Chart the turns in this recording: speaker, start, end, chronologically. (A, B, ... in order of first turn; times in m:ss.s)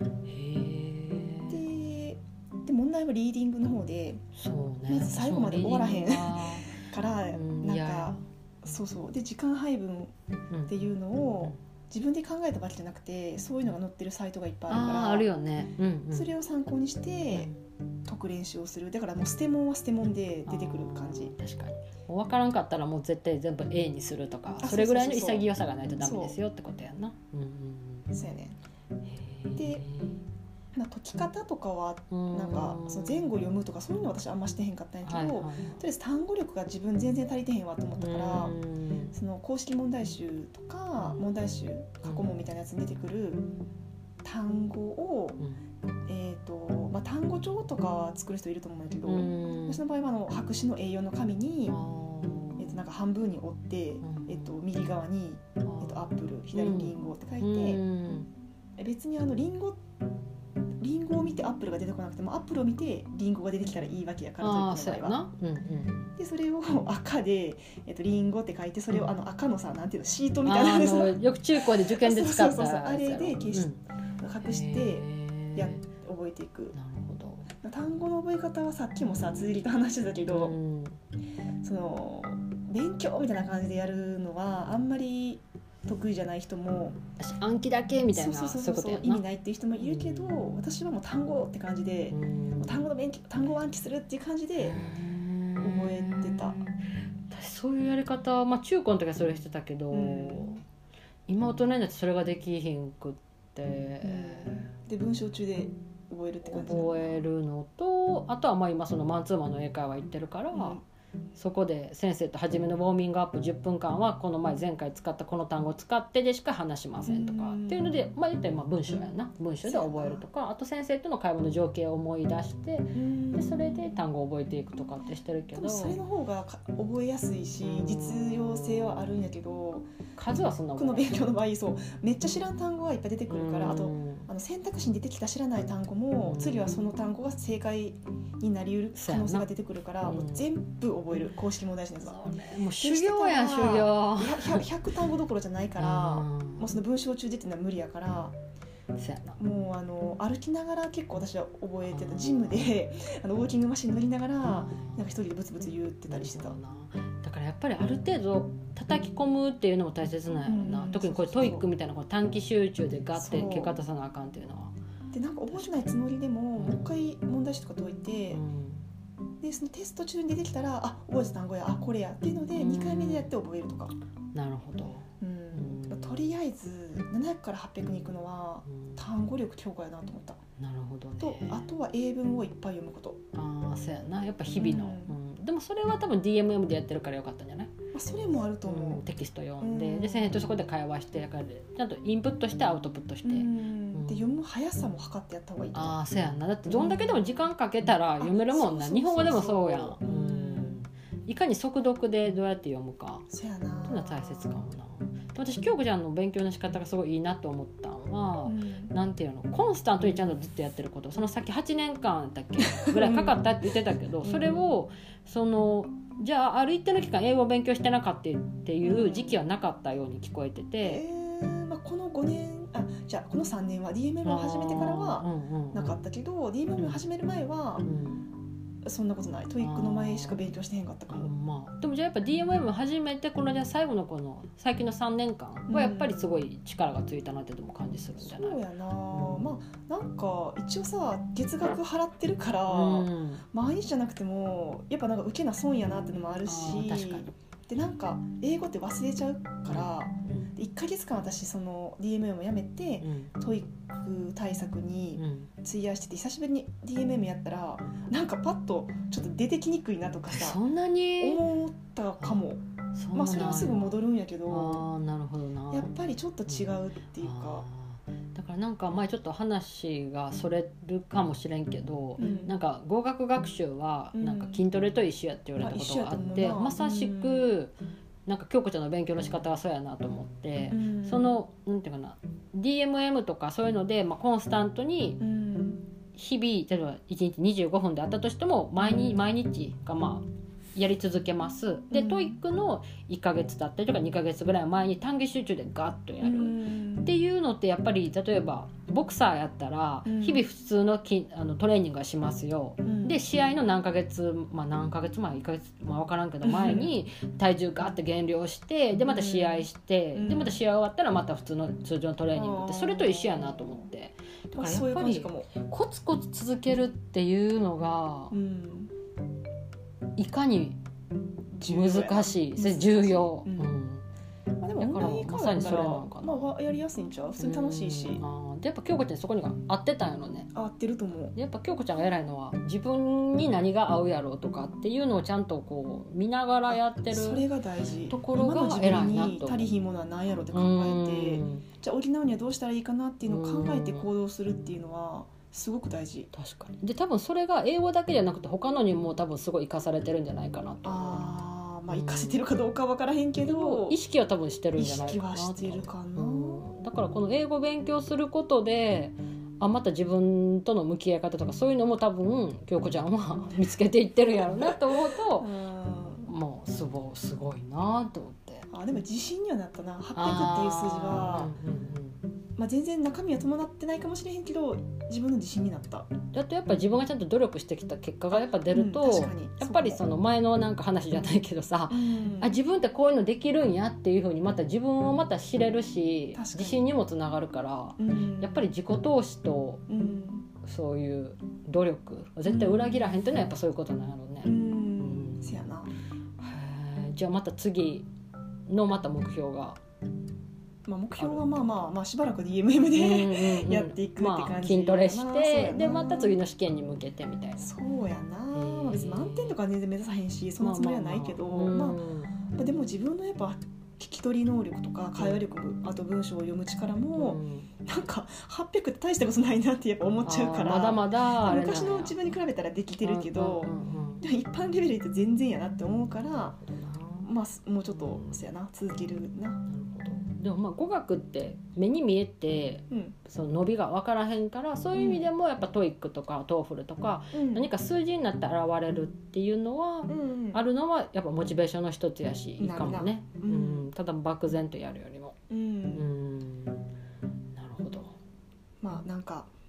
0:00.2-0:01.6 A
0:01.5-0:04.2 B
0:04.4-0:06.8 A
0:04.9-0:10.1 B
0:07.3-0:08.2 A
0:10.5-0:11.6 A
0:10.7-0:15.3 B
0:14.7-0:16.3 A
0:16.1-0:17.5 B
0:18.0-0:21.3 B
0:20.5-0:28.1 A
0:24.6-0:25.5 B
0:26.0-0:26.4 B
0:28.1-0:28.6 B
0:29.0-0:30.2 A
0:29.6-0:29.8 B
0:30.7-0:38.6 B
0:32.1-0:33.4 A
0:35.0-0:35.8 A
0:38.0-0:39.2 A
0:39.1-0:43.4 B
0:41.0-0:41.2 A
0:42.0-0:42.3 A
0:44.2-0:45.4 B
0:46.1-0:51.8 B
0:49.0-0:49.8 A
0:51.7-0:52.8 A
0:52.6-0:57.8 B
0:54.0-0:54.6 A
0:55.6-0:58.3 A
0:58.8-0:59.8 B
1:00.8-1:05.2 B
1:04.4-1:06.1 A
1:06.2-1:13.7 B
1:08.9-1:09.2 A
1:10.4-1:13.8 A
1:14.2-1:16.8 B
1:14.4-1:15.8 A
1:16.7-1:17.5 A
1:17.6-1:20.6 B
1:20.3-1:21.0 A
1:21.6-1:27.0 B
1:27.2-1:29.2 A
1:28.1-1:34.8 B
1:29.8-1:30.5 A
1:32.1-1:32.9 A
1:34.6-1:40.6 A
1:35.6-1:36.6 B
1:39.9-1:40.6 B
1:41.3-1:44.6 A
1:44.0-1:47.2 B
1:46.5-1:50.8 A
1:50.5-1:50.8 B
1:51.4-2:06.0 A
1:57.0-1:58.0 B
1:59.6-2:00.2 B
2:02.9-2:04.0 B
2:05.6-2:09.9 B
2:07.6-2:09.2 A
2:10.2-2:11.1 A
2:10.7-2:22.2 B
2:13.3-2:14.3 A
2:16.2-2:16.9 A
2:19.0-2:19.5 A
2:20.0-2:20.5 A
2:22.0-2:24.6 A
2:22.8-2:28.3 B
2:25.8-2:26.8 A
2:28.9-2:29.4 A
2:29.4-2:36.6 B
2:31.8-2:32.8 A
2:34.4-2:35.2 A
2:36.1-2:44.7 A
2:40.4-2:41.7 B
2:43.1-2:43.8 B
2:45.1-2:48.4 B
2:45.5-2:46.0 A
2:46.6-2:46.9 A
2:48.3-2:48.8 A
2:49.4-2:53.9 B
2:52.5-2:53.3 A
2:54.3-2:56.2 A
2:55.2-3:00.4 B
2:58.7-2:59.0 A
3:00.6-3:01.7 A
3:01.2-3:03.2 B
3:03.3-3:07.7 A
3:04.6-3:05.2 B
3:07.9-3:09.0 B
3:08.6-3:14.4 A
3:09.6-3:10.5 B
3:13.2-3:16.0 B
3:15.7-3:23.3 A
3:16.6-3:17.4 B
3:18.2-3:20.8 B
3:23.3-3:24.6 B
3:23.8-3:41.0 A
3:28.4-3:28.9 B
3:32.9-3:33.3 B
3:34.2-3:34.6 B
3:38.8-3:39.4 B
3:40.8-3:47.9 B
3:44.2-3:46.0 A
3:46.8-3:47.0 A
3:47.8-3:48.3 A
3:48.8-3:51.3 B
3:49.6-3:50.4 A
3:51.1-3:59.5 A
3:55.7-3:56.3 B
3:58.2-4:20.6 B
4:02.7-4:03.4 A
4:06.4-4:07.3 A
4:09.6-4:10.5 A
4:13.0-4:13.3 A
4:15.2-4:15.5 A
4:20.3-4:21.4 A
4:21.2-4:22.6 B
4:22.2-4:25.9 A
4:23.1-4:24.8 B
4:25.7-4:27.6 B
4:26.5-4:37.7 A
4:32.2-4:32.5 B
4:34.1-4:34.6 B
4:35.6-4:37.5 B
4:38.2-4:45.2 A
4:40.7-4:41.4 B
4:45.2-4:45.8 B
4:46.1-5:18.4 A
4:51.9-4:52.4 B
4:56.2-4:57.1 B
5:00.0-5:00.4 B
5:02.8-5:03.2 B
5:06.4-5:06.9 B
5:09.0-5:10.6 B
5:12.3-5:13.9 B
5:14.5-5:15.5 B
5:18.3-5:18.9 B
5:20.2-5:20.8 A
5:21.5-5:23.7 B
5:21.6-5:24.0 A
5:24.6-5:28.2 B
5:24.8-5:26.5 A
5:27.4-5:30.5 A
5:30.5-5:31.3 B
5:31.3-5:37.4 A
5:36.7-5:46.3 B
5:38.1-5:39.7 A
5:40.5-5:41.6 A
5:43.2-5:44.1 A
5:46.3-5:52.4 A
5:50.8-5:54.0 B
5:53.4-6:05.5 A
5:54.7-5:56.6 B
6:04.4-6:04.8 B
6:05.3-6:06.3 B
6:06.2-6:08.7 A
6:08.7-6:11.5 B
6:10.1-6:12.2 A
6:12.6-6:16.1 B
6:16.3-6:29.8 A
6:18.3-6:20.0 B
6:21.9-6:22.6 B
6:26.3-6:26.9 B
6:28.0-6:28.7 B
6:29.9-6:30.5 B
6:30.6-6:35.7 A
6:32.4-6:33.1 B
6:34.4-6:35.9 B
6:36.4-6:38.1 A
6:38.7-6:39.8 A
6:40.8-6:46.4 B
6:41.2-6:41.9 A
6:42.9-6:47.7 A
6:47.6-6:52.0 B
6:48.5-6:49.6 A
6:50.6-6:52.3 A
6:52.5-7:06.6 B
6:57.1-6:57.7 A
7:00.2-7:02.2 A
7:03.0-7:04.2 A
7:06.3-7:07.3 A
7:07.2-7:09.6 B
7:07.8-7:08.4 A
7:09.7-7:25.4 A
7:12.9-7:13.2 B
7:14.9-7:15.3 B
7:17.3-7:17.7 B
7:20.1-7:20.6 B
7:22.6-7:23.9 B
7:25.5-7:26.0 B
7:25.9-7:26.9 A
7:27.5-7:28.1 A
7:28.8-7:29.5 B